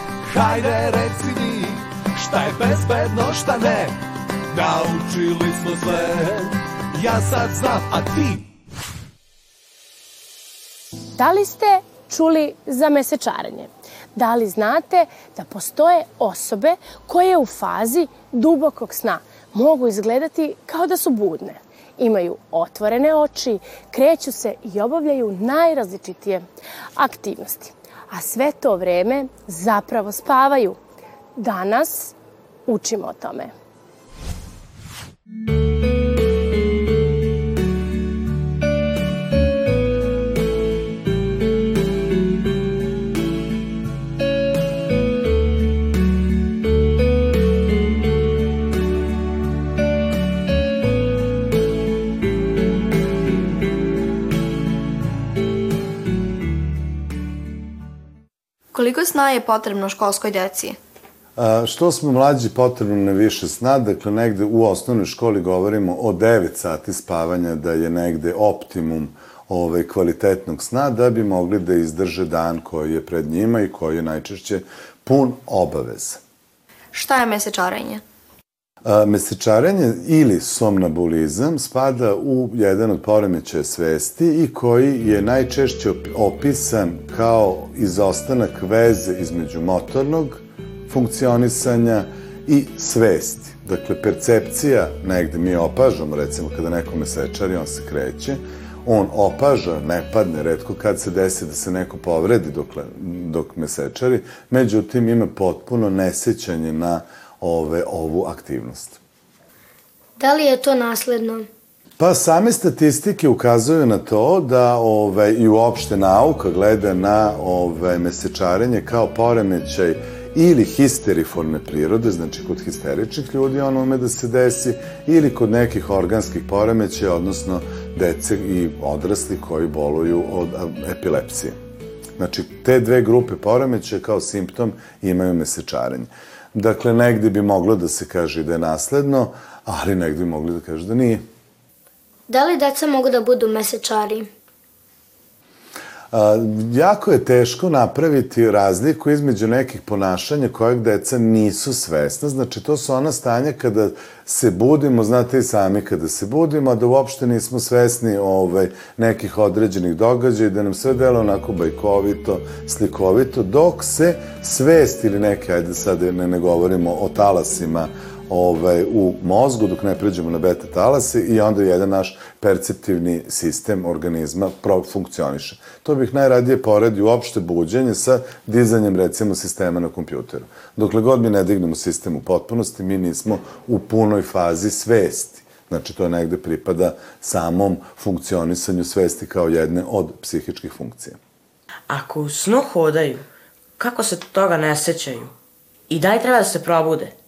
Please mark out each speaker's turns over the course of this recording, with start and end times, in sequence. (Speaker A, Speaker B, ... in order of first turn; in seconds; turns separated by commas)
Speaker A: 0.2-3.9, Speaker A: 4.5-8.4, Speaker B: 11.2-26.4, Speaker B: 26.9-30.8, Speaker B: 31.4-32.1, Speaker B: 32.7-33.5, Speaker C: 58.7-60.8, Speaker D: 61.4-76.2, Speaker C: 76.9-78.0, Speaker D: 78.8-109.0, Speaker E: 110.2-111.5, Speaker D: 112.0-131.5, Speaker D: 132.2-141.2, Speaker E: 142.3-144.3, Speaker D: 146.1-191.2, Speaker F: 191.9-193.2, Speaker F: 193.8-195.3, Speaker F: 195.9-197.1